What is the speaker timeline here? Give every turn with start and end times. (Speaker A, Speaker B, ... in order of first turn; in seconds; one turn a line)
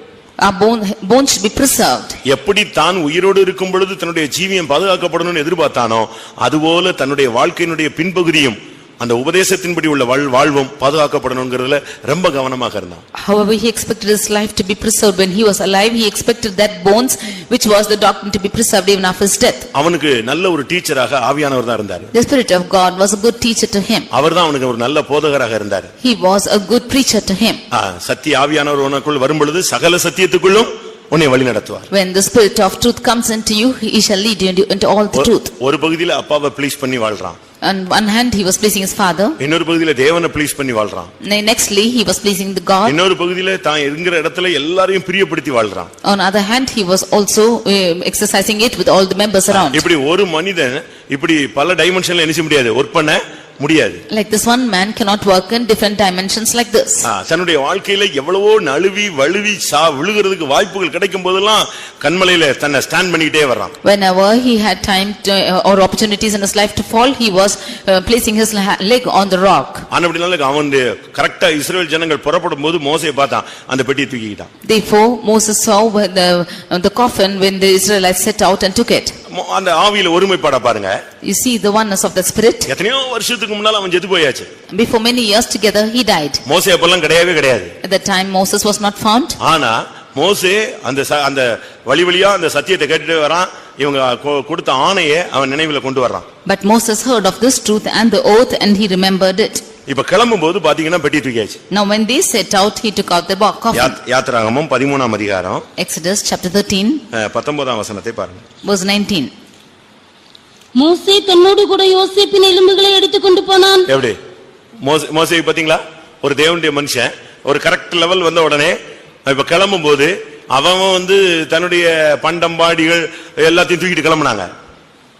Speaker A: 0.4-2.2
Speaker B: 2.2-13.0
Speaker A: 13.2-19.7
Speaker B: 19.7-22.1
Speaker A: 22.1-24.1
Speaker B: 24.1-25.9
Speaker A: 26.0-27.6
Speaker B: 27.7-31.9
Speaker A: 31.9-35.5
Speaker B: 35.1-37.4
Speaker A: 37.6-39.4
Speaker B: 39.4-41.1
Speaker A: 41.2-43.0
Speaker B: 42.8-45.9
Speaker A: 46.0-49.8
Speaker B: 49.5-54.0
Speaker A: 54.1-57.0
Speaker B: 57.0-63.7
Speaker A: 63.8-69.8
Speaker B: 69.9-74.5
Speaker A: 74.6-79.2
Speaker B: 79.3-81.0
Speaker A: 81.2-82.7
Speaker B: 82.7-84.5
Speaker A: 84.7-86.4
Speaker B: 86.5-87.7
Speaker A: 87.8-89.4
Speaker B: 89.4-96.2
Speaker A: 96.5-99.6
Speaker B: 99.9-101.6
Speaker A: 101.7-104.0
Speaker B: 103.7-105.6
Speaker A: 105.8-107.0
Speaker B: 107.1-108.4
Speaker A: 108.6-109.3
Speaker C: 110.7-113.8
Speaker B: 113.9-114.2
Speaker B: 114.8-124.5